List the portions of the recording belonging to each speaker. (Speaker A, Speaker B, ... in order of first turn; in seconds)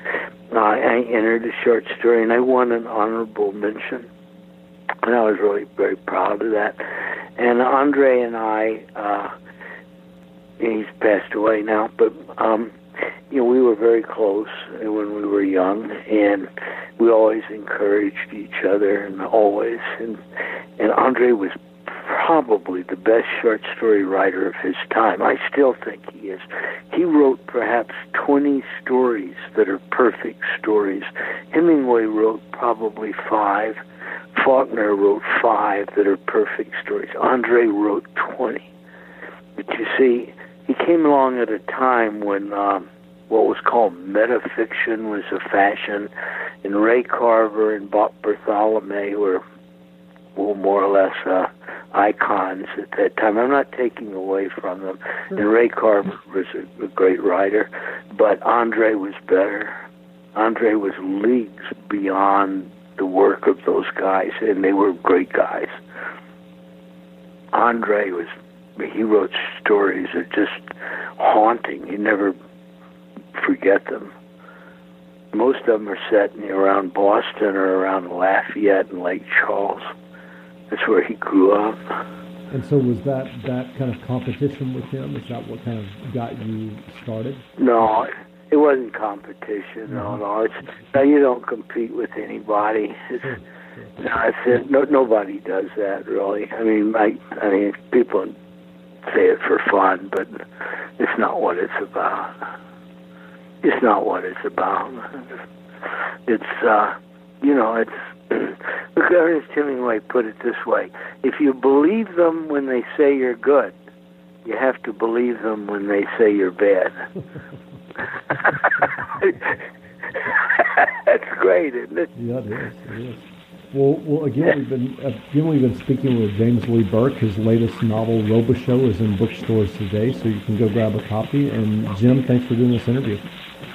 Speaker A: 0.5-4.1, 5.0-6.8, 7.4-9.3, 10.6-12.8, 13.3-20.2, 20.8-33.8, 34.3-38.7, 39.6-46.1, 46.6-49.4, 50.4-59.8, 60.4-65.8, 67.5-72.4, 73.3-74.1, 75.3-79.9, 80.7-82.0, 87.6-93.4, 94.0-98.3, 99.1-100.4, 101.0-102.5, 103.6-105.3, 106.3-113.7, 114.5-117.0, 118.3-119.5, 120.2-122.1
Speaker B: 82.5-87.4, 89.9-90.2, 93.2-93.9, 122.2-133.2